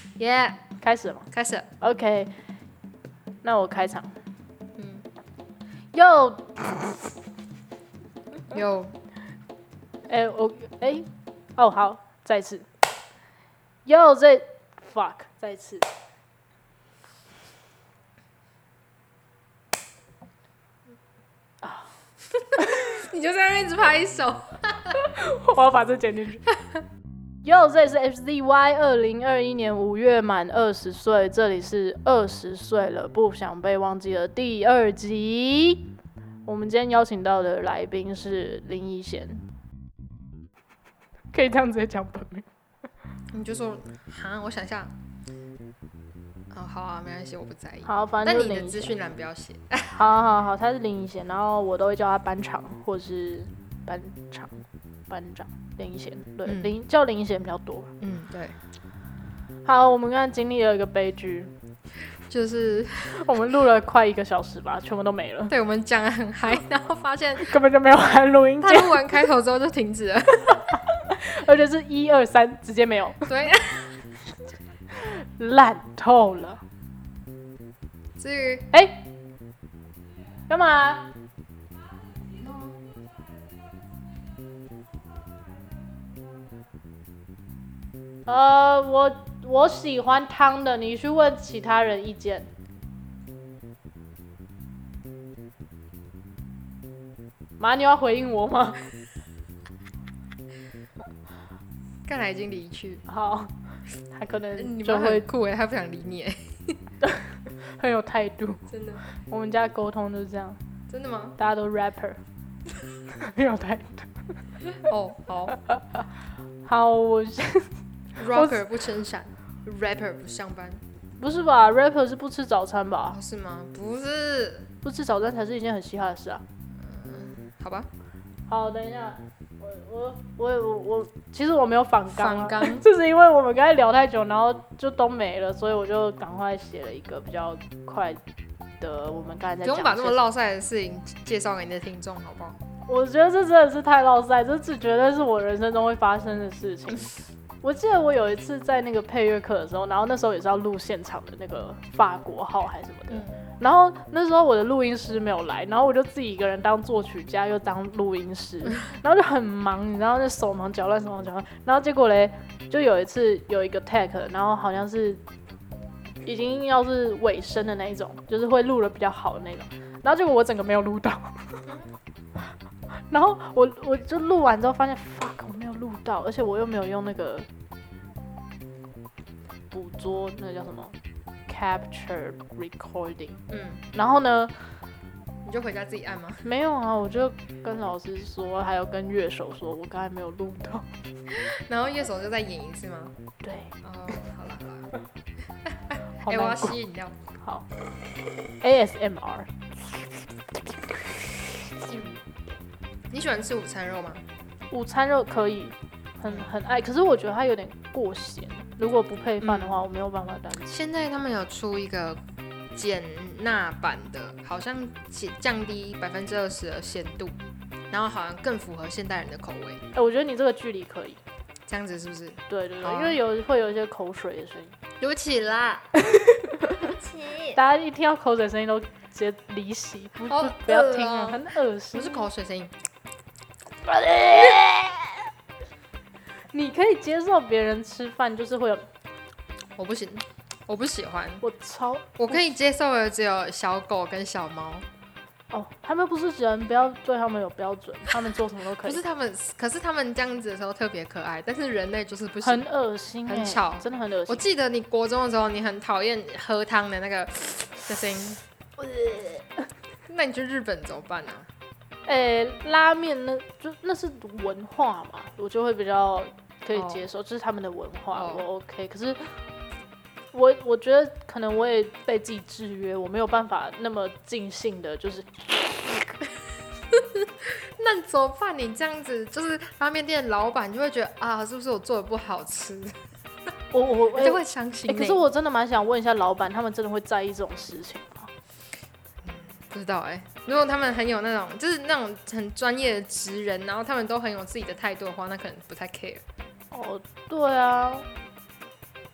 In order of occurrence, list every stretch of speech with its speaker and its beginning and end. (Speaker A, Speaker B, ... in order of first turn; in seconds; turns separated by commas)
Speaker A: 0.2-0.7, Speaker B: 0.8-1.3, Speaker A: 1.3-1.7, Speaker B: 1.8-2.3, Speaker B: 3.4-4.1, Speaker A: 4.8-5.1, Speaker B: 5.9-7.1, Speaker A: 8.5-9.0, Speaker B: 10.1-12.7, Speaker B: 13.8-15.9, Speaker B: 21.6-21.9, Speaker A: 22.7-25.0, Speaker B: 25.1-26.4, Speaker B: 27.4-35.9, Speaker B: 36.5-39.5, Speaker B: 41.3-42.5, Speaker A: 43.3-44.9, Speaker A: 46.5-50.0, Speaker B: 47.9-49.0, Speaker B: 49.9-57.9, Speaker A: 56.5-56.7, Speaker A: 58.0-58.6, Speaker B: 59.6-61.5, Speaker A: 62.1-63.2, Speaker B: 63.1-65.5, Speaker A: 65.5-67.5, Speaker B: 67.4-69.3, Speaker A: 68.6-70.7, Speaker B: 70.7-73.2, Speaker A: 73.2-74.0, Speaker B: 75.0-76.6, Speaker A: 78.2-78.7, Speaker B: 78.7-79.0, Speaker B: 80.5-81.1, Speaker B: 88.3-92.5, Speaker B: 97.6-98.8, Speaker A: 102.1-103.0, Speaker B: 103.1-105.3, Speaker A: 104.6-106.8, Speaker B: 107.0-110.6, Speaker A: 108.7-109.0, Speaker A: 110.9-111.4, Speaker B: 111.4-112.2, Speaker B: 113.1-114.3, Speaker A: 114.8-115.6, Speaker B: 115.6-116.0, Speaker B: 116.7-117.8, Speaker A: 118.2-120.8, Speaker B: 118.3-118.6, Speaker B: 121.2-123.2, Speaker A: 123.1-124.7, Speaker B: 124.8-126.4, Speaker A: 126.8-127.9, Speaker B: 128.5-138.2, Speaker A: 132.1-132.8, Speaker B: 138.8-140.2, Speaker A: 139.6-142.6, Speaker B: 142.9-147.1, Speaker B: 147.6-165.2, Speaker B: 166.2-171.7, Speaker B: 173.1-177.5, Speaker B: 179.7-181.0, Speaker B: 181.5-183.4, Speaker A: 183.5-183.8, Speaker B: 183.9-184.6, Speaker A: 185.4-186.5, Speaker B: 186.4-190.9, Speaker A: 191.3-193.1, Speaker B: 193.4-193.8, Speaker A: 193.8-194.9, Speaker A: 195.7-197.2, Speaker B: 196.2-196.8, Speaker B: 197.4-197.7, Speaker B: 198.6-199.5, Speaker A: 203.1-204.2, Speaker B: 204.7-210.7, Speaker A: 209.4-209.8, Speaker A: 210.7-212.2, Speaker A: 212.7-217.4, Speaker A: 217.9-219.8, Speaker B: 219.9-221.2, Speaker A: 221.7-223.2, Speaker B: 222.5-224.7, Speaker A: 225.0-225.9, Speaker B: 226.1-226.6, Speaker A: 226.8-227.6, Speaker B: 227.5-232.2, Speaker A: 230.3-232.7, Speaker B: 233.8-235.3, Speaker B: 236.4-238.8, Speaker A: 239.8-241.4, Speaker B: 241.4-242.5, Speaker A: 242.2-244.9, Speaker B: 245.5-249.0, Speaker A: 248.8-252.7, Speaker B: 252.4-254.4, Speaker A: 253.3-258.4, Speaker B: 258.8-259.6, Speaker A: 260.1-261.5, Speaker B: 262.1-269.4, Speaker A: 266.7-267.0, Speaker A: 268.1-268.5, Speaker B: 270.3-276.2, Speaker A: 276.9-283.0, Speaker B: 283.7-288.3, Speaker A: 284.1-285.2, Speaker A: 289.2-296.2, Speaker B: 296.7-298.1